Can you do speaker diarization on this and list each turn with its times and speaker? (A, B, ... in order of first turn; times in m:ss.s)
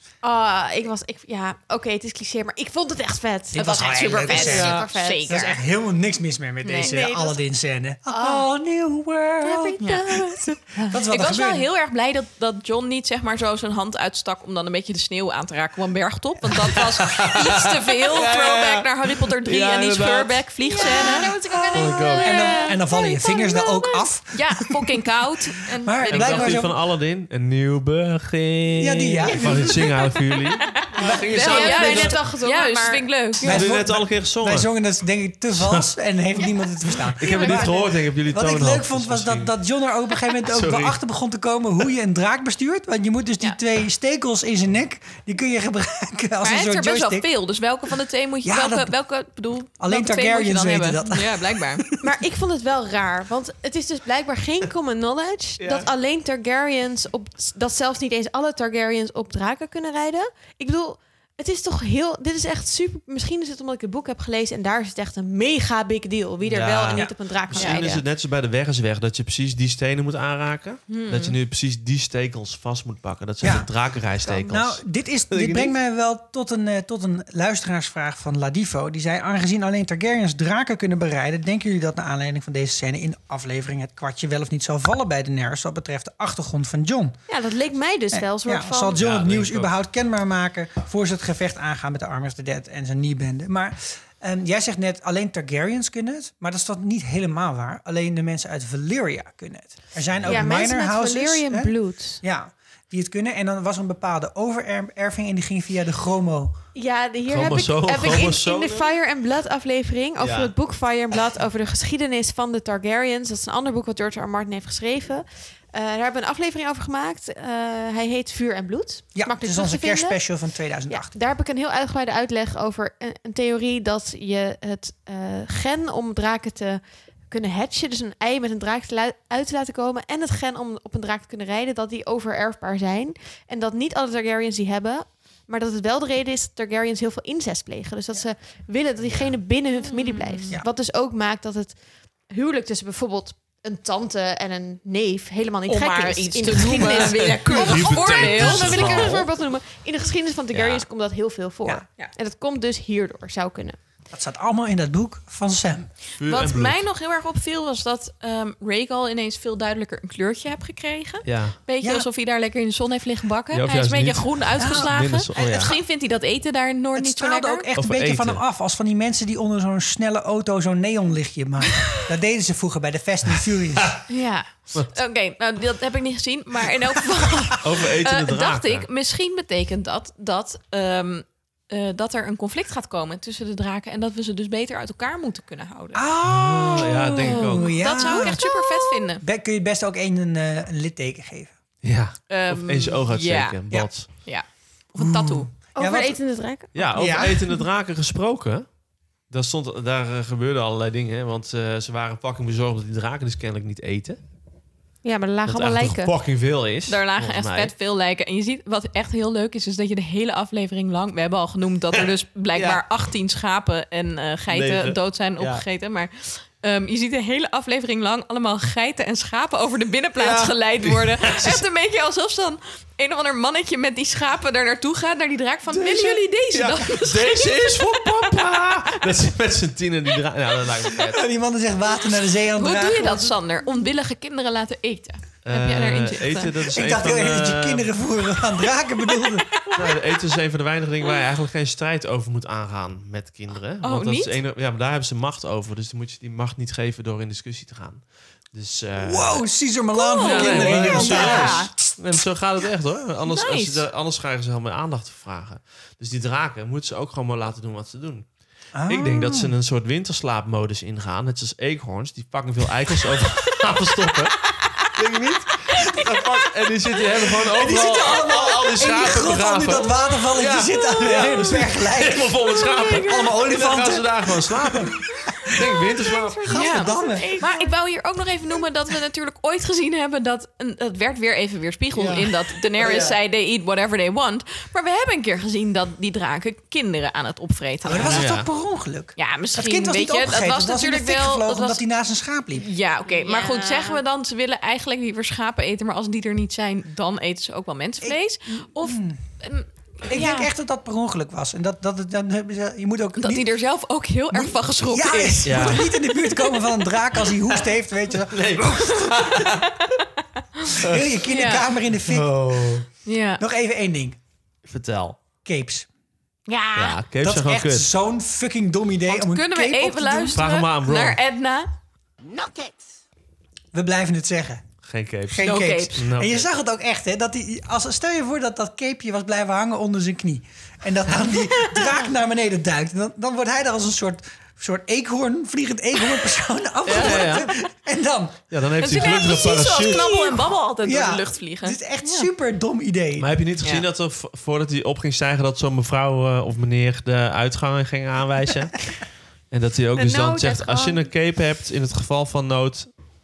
0:00.2-0:05.3 A
0:03.5-0:09.8 B
0:03.6-0:05.6 C
0:06.6-0:07.0 C
0:06.7-0:07.4 A
0:08.1-0:08.5 A
0:09.4-0:10.2 A
0:09.8-0:22.8 C
0:10.9-0:11.7 B
0:16.7-0:20.4 D
0:20.7-0:24.0 A
0:21.7-0:22.3 D
0:22.2-0:24.7 B
0:24.3-0:26.6 C
0:25.8-0:26.7 B
0:26.1-0:32.2 D
0:28.8-0:29.8 B
0:30.7-0:33.7 C
0:31.3-0:33.1 A
0:33.4-0:47.3 B
0:33.4-0:34.7 D
0:35.5-0:35.9 D
0:37.2-0:39.6 D
0:37.3-0:37.6 C
0:40.5-0:41.0 D
0:46.4-0:51.9 C
0:48.4-0:48.9 B
0:49.8-0:51.9 B
0:52.0-1:08.0 A
0:55.6-0:55.9 D
1:06.4-1:15.7 D
1:07.5-1:07.9 C
1:10.9-1:11.4 C
1:13.4-1:13.7 B
1:14.2-1:14.5 A
1:14.5-1:27.2 B
1:27.3-1:29.0 A
1:28.1-1:46.6 B
1:29.0-1:29.7 D
1:40.2-1:42.2 A
1:46.8-2:00.2 A
1:47.3-1:48.9 D
1:50.2-1:50.5 D
1:59.2-2:01.1 B
2:00.9-2:21.8 A
2:19.0-2:19.4 D
2:19.8-2:20.5 C
2:22.3-2:33.8 A
2:25.7-2:29.2 C
2:26.8-2:29.3 D
2:30.5-2:30.8 D
2:34.1-2:35.9 B
2:36.2-2:36.8 D
2:36.2-2:47.7 C
2:41.2-2:41.6 D
2:41.8-2:42.1 B
2:43.5-2:45.8 D
2:44.6-2:45.8 B
2:47.0-2:54.0 B
2:47.8-2:48.4 D
2:54.1-3:06.0 C
2:57.6-2:58.9 D
3:05.9-3:08.5 B
3:06.2-3:07.7 D
3:07.5-3:09.2 C
3:09.2-3:11.5 B
3:11.8-3:14.1 D
3:12.3-3:15.5 C
3:15.0-3:16.2 B
3:15.8-3:16.8 A
3:16.7-3:18.7 D
3:16.9-3:17.4 B
3:19.3-3:24.2 D
3:25.0-3:26.1 A
3:25.5-3:27.7 D
3:26.9-3:48.3 C
3:31.9-3:32.8 D
3:34.5-3:35.6 D
3:40.2-3:41.6 D
3:45.7-3:51.2 D
3:51.1-3:53.3 B
3:52.5-3:56.6 C
3:55.4-3:58.0 D
3:56.7-3:59.5 B
3:59.2-4:00.0 C
3:59.7-4:09.5 D
4:03.8-4:04.4 C
4:09.0-4:11.7 B
4:10.0-4:11.7 C
4:10.2-4:18.3 D
4:13.3-4:13.8 C
4:18.7-4:19.5 B
4:18.9-4:24.4 D
4:24.9-4:36.6 D
4:27.5-4:34.8 B
4:32.6-4:33.2 C
4:36.0-4:37.8 A
4:36.5-4:37.3 B
4:36.5-4:48.3 C
4:42.8-4:43.2 D
4:47.8-4:52.7 B
4:48.0-4:48.5 D
4:49.2-4:51.8 C
4:52.6-5:00.5 C
4:53.1-4:54.0 A
4:58.0-4:59.2 B
5:00.1-5:03.5 B
5:03.2-5:06.7 C
5:04.3-5:09.4 B
5:05.4-5:05.9 D
5:08.2-5:09.8 D
5:10.8-5:12.4 B
5:10.8-5:11.2 D
5:11.3-5:11.7 C
5:12.1-5:12.9 D
5:13.0-5:13.4 C
5:13.4-5:14.2 B
5:14.6-5:15.2 D
5:15.4-5:15.9 B
5:16.5-5:17.0 C
5:16.8-5:17.9 D
5:17.2-5:20.4 B
5:19.1-5:21.7 C
5:20.3-5:21.2 D
5:23.7-5:24.6 B
5:24.8-5:26.5 D
5:25.3-5:38.4 B
5:25.4-5:26.0 C
5:31.3-5:32.0 C
5:36.9-5:37.5 D
5:38.5-5:40.1 D
5:38.8-5:42.3 C
5:40.8-5:43.3 B
5:43.2-5:49.0 D
5:49.5-5:52.9 D
5:50.0-5:51.1 A